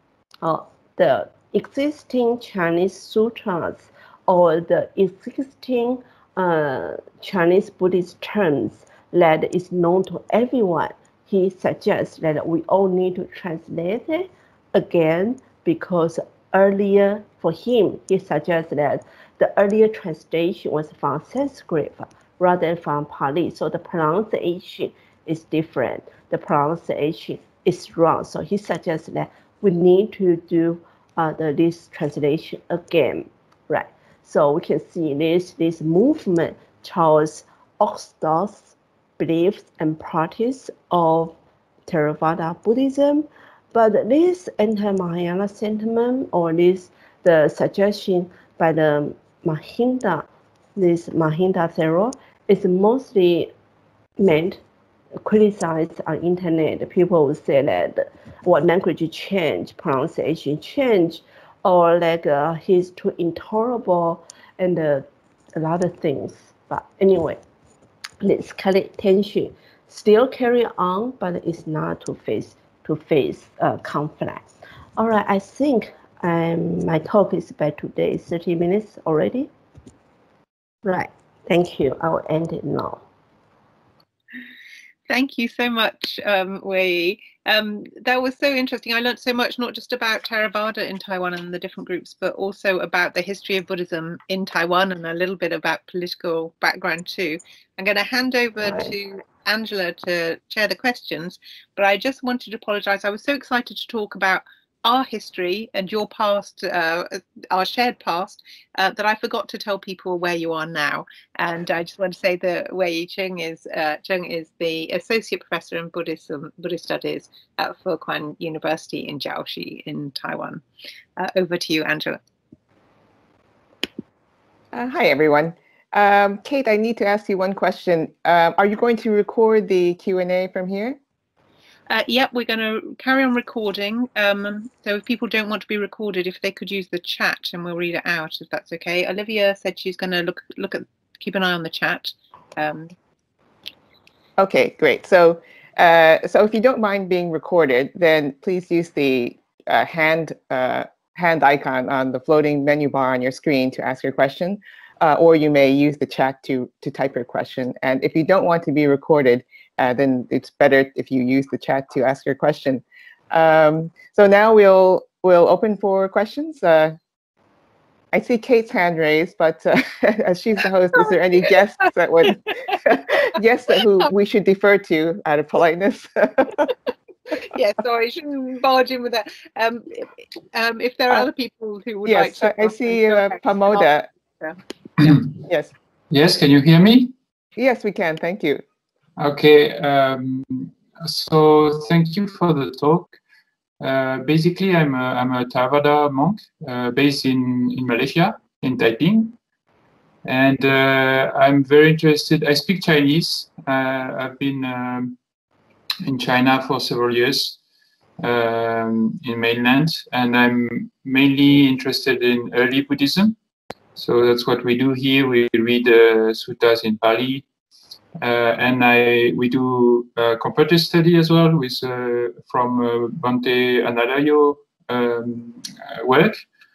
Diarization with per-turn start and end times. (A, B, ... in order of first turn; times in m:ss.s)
0:00.4-0:53.5 A
0:54.2-0:54.6 A
0:55.2-1:07.4 A
1:08.2-1:19.5 A
1:20.8-1:23.0 A
1:25.1-2:00.6 B
1:38.6-1:38.9 A
2:01.2-2:02.2 B
2:04.7-2:11.0 C
2:11.9-2:22.9 B
2:24.4-2:47.0 C
2:48.1-2:56.7 C
2:57.4-3:04.6 B
3:02.0-3:04.1 C
3:05.0-3:05.3 D
3:05.4-3:05.7 C
3:06.1-3:07.1 D
3:07.6-3:08.6 C
3:09.2-3:13.2 D
3:13.8-3:19.4 D
3:20.2-3:25.2 D
3:26.0-3:27.6 D
3:28.2-3:33.4 D
3:34.0-3:37.4 D
3:38.2-3:46.4 D